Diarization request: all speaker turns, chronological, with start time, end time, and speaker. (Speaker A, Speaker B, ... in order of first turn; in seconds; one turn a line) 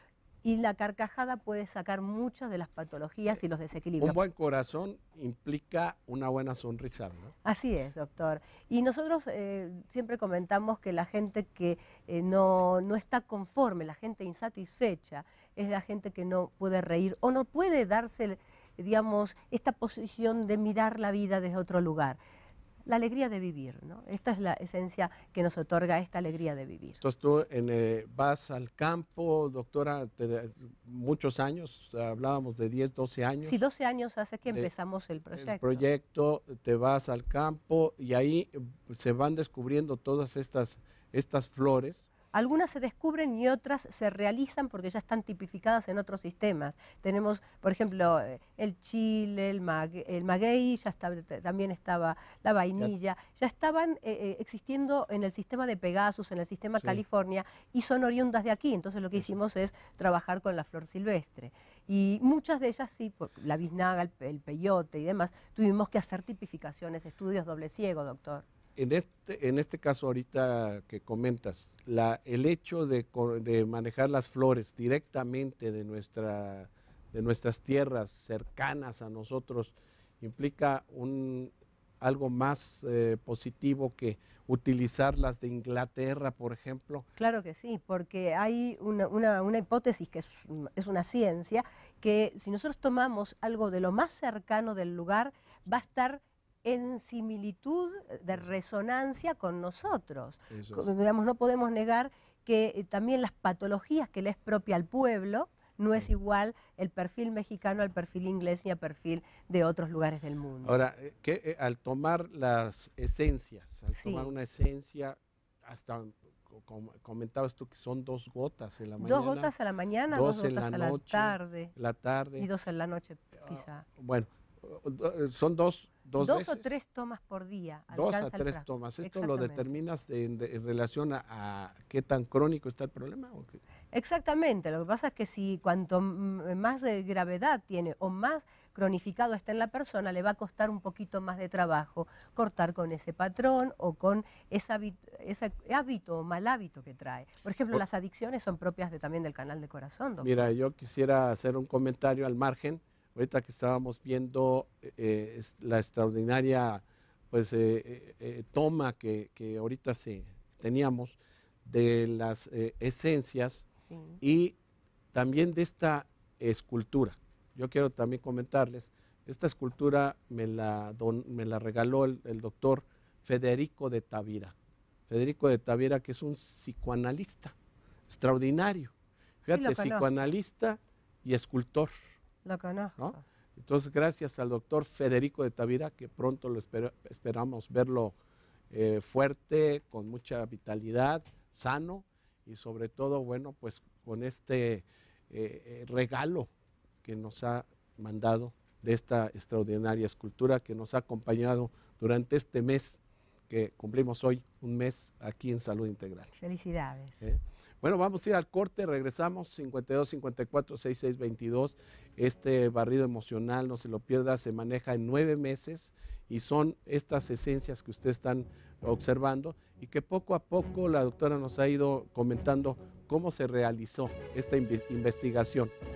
Speaker A: 0.4-4.2
Speaker B: 4.0-7.3
Speaker A: 7.4-22.2
Speaker A: 22.9-27.0
Speaker B: 27.0-33.6
Speaker A: 33.4-35.8
Speaker B: 35.3-42.1
Speaker A: 42.3-68.4
Speaker B: 68.8-87.0
Speaker A: 87.2-110.8
Speaker B: 100.5-100.9
Speaker B: 110.6-119.5
Speaker A: 113.9-114.3
Speaker A: 119.0-121.7
Speaker B: 120.1-122.5
Speaker A: 122.4-123.8
Speaker B: 124.0-126.7
Speaker A: 126.2-129.7
Speaker B: 127.9-133.6
Speaker A: 133.9-150.5
Speaker B: 150.2-163.7
Speaker A: 163.9-164.2
Speaker B: 164.2-164.6
Speaker B: 165.1-174.5
Speaker B: 175.1-177.5
Speaker B: 178.1-178.9
Speaker A: 179.4-180.1
Speaker B: 179.4-181.9
Speaker A: 182.4-183.2
Speaker B: 183.0-188.2
Speaker B: 188.7-196.5
Speaker B: 197.0-206.3
Speaker A: 206.4-207.2
Speaker B: 207.2-225.7